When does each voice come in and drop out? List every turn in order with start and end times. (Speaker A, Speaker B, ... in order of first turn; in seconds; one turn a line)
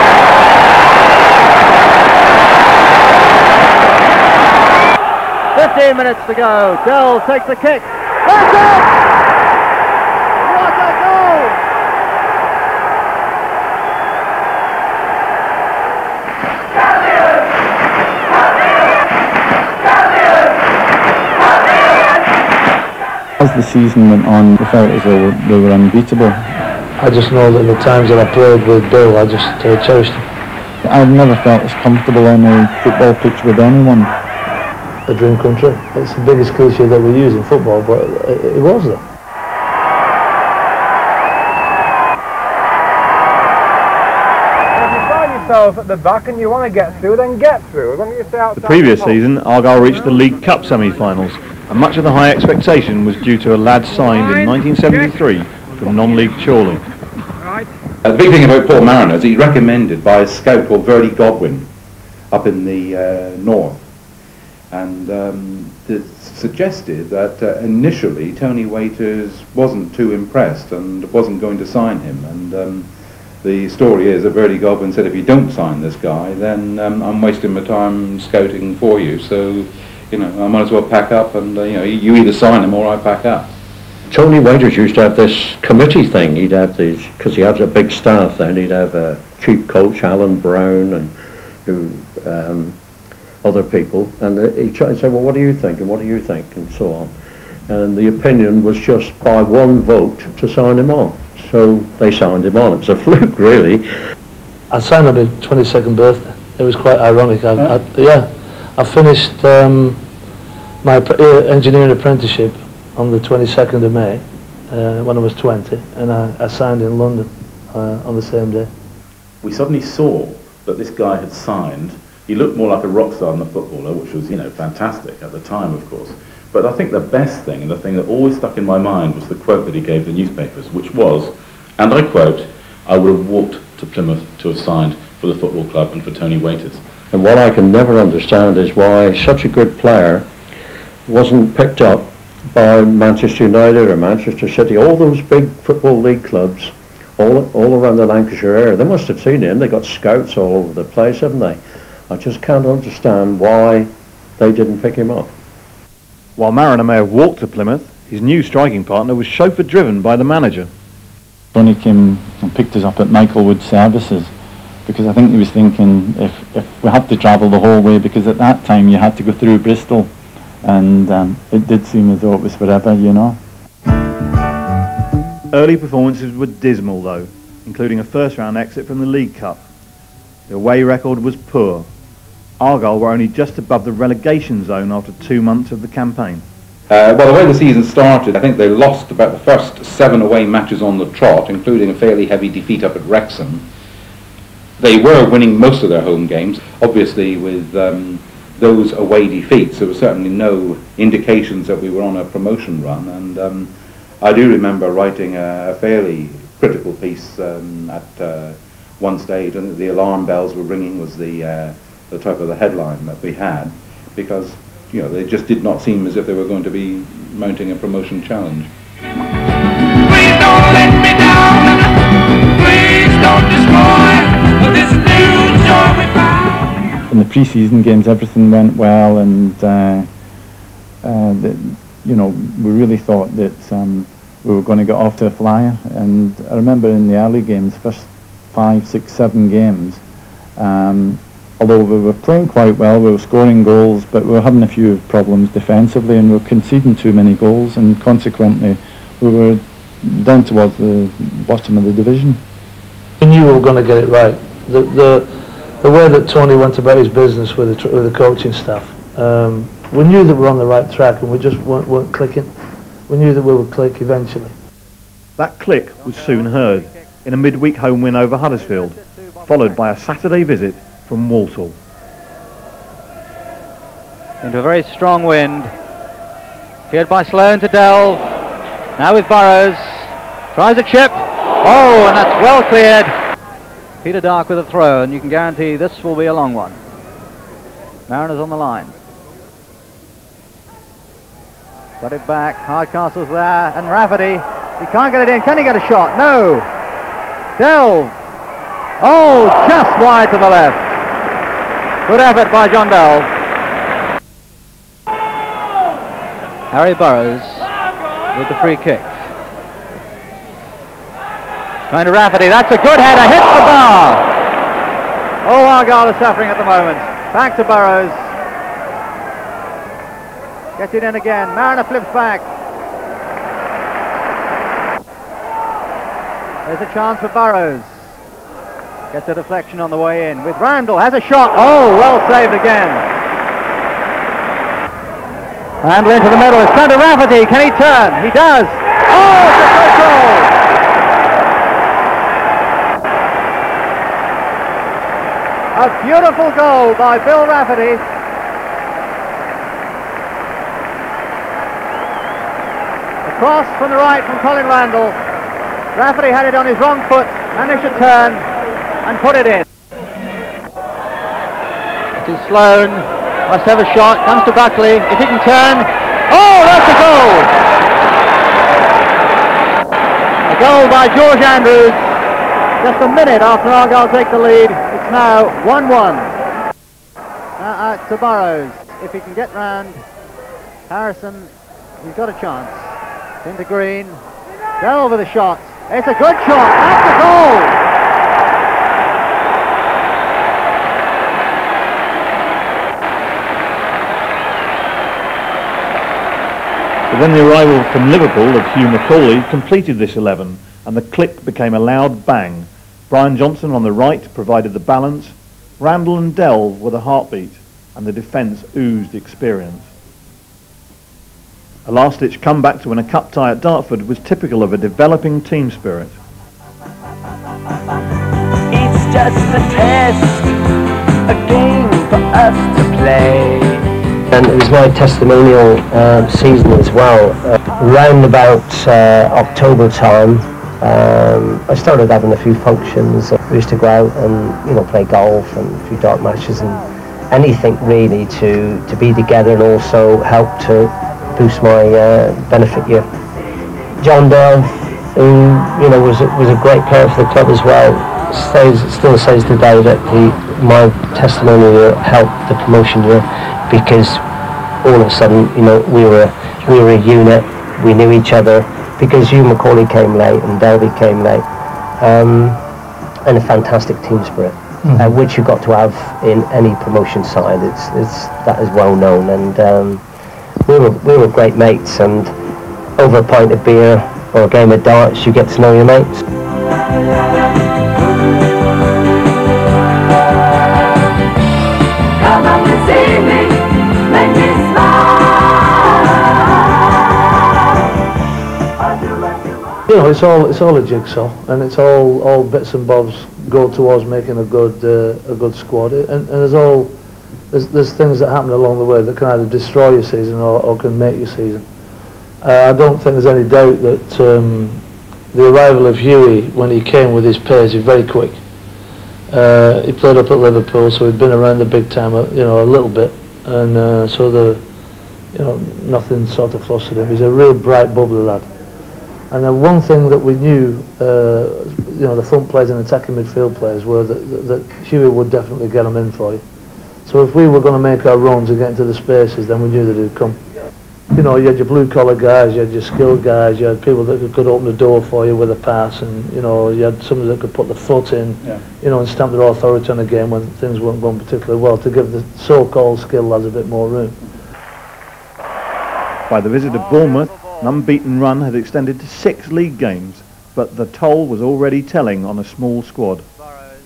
Speaker A: 5.5-8.9
Speaker A: 10.4-11.6
Speaker B: 23.4-26.4
Speaker C: 27.0-30.2
Speaker B: 30.8-34.1
Speaker C: 35.1-39.0
Speaker D: 44.7-49.2
Speaker E: 48.6-56.8
Speaker F: 58.0-61.7
Speaker F: 62.3-63.8
Speaker F: 64.7-72.9
Speaker F: 73.4-83.5
Speaker G: 84.1-91.1
Speaker G: 91.7-92.8
Speaker G: 93.4-97.2
Speaker G: 97.7-103.9
Speaker C: 104.7-110.0
Speaker C: 110.8-118.7
Speaker H: 119.4-136.8
Speaker G: 137.1-140.3
Speaker G: 141.1-155.3
Speaker E: 156.4-160.7
Speaker B: 161.5-164.3
Speaker B: 164.9-170.1
Speaker B: 170.6-173.4
Speaker E: 175.5-179.6
Speaker E: 180.5-181.9
Speaker E: 182.6-186.4
Speaker F: 186.9-193.7
Speaker F: 194.8-218.7
Speaker I: 220.2-221.2
Speaker I: 222.8-224.2
Speaker I: 224.8-225.9
Speaker B: 227.1-230.1
Speaker B: 231.0-240.0
Speaker B: 240.6-252.4
Speaker C: 253.2-255.3
Speaker C: 255.8-262.5
Speaker C: 263.1-264.5
Speaker E: 265.4-271.8
Speaker A: 266.1-266.8
Speaker A: 268.9-269.8
Speaker A: 274.4-275.7
Speaker A: 276.9-278.3
Speaker A: 279.0-283.1
Speaker A: 284.0-286.8
Speaker A: 288.1-288.9
Speaker A: 292.0-296.7
Speaker A: 297.6-298.1
Speaker A: 299.0-300.8
Speaker A: 302.1-303.3
Speaker A: 306.7-307.7
Speaker A: 308.3-309.2
Speaker A: 311.9-314.2
Speaker A: 315.4-318.2
Speaker A: 320.8-322.5
Speaker A: 326.7-327.9
Speaker A: 329.1-333.0
Speaker A: 335.8-340.5
Speaker A: 345.7-348.0
Speaker A: 353.2-355.2
Speaker A: 355.9-358.5
Speaker A: 359.0-359.7
Speaker A: 362.2-367.5
Speaker A: 370.5-372.1
Speaker A: 372.8-376.3
Speaker A: 377.6-380.0
Speaker A: 380.9-382.9
Speaker A: 383.4-384.2
Speaker A: 384.8-387.8
Speaker E: 397.1-409.9
Speaker E: 411.9-416.1
Speaker I: 418.7-420.5
Speaker I: 421.3-423.8
Speaker J: 424.3-443.1
Speaker J: 444.0-454.2
Speaker J: 454.8-461.4
Speaker J: 462.0-462.6
Speaker J: 463.3-470.0
Speaker J: 470.6-472.3
Speaker J: 473.0-476.2
Speaker C: 489.9-496.9
Speaker C: 497.5-501.6
Speaker C: 502.4-508.4
Speaker C: 509.3-514.6
Speaker C: 515.3-518.5
Speaker C: 519.3-526.4
Speaker C: 527.1-530.4
Speaker C: 531.1-544.2
Speaker E: 546.3-553.2
Speaker A: 546.8-547.7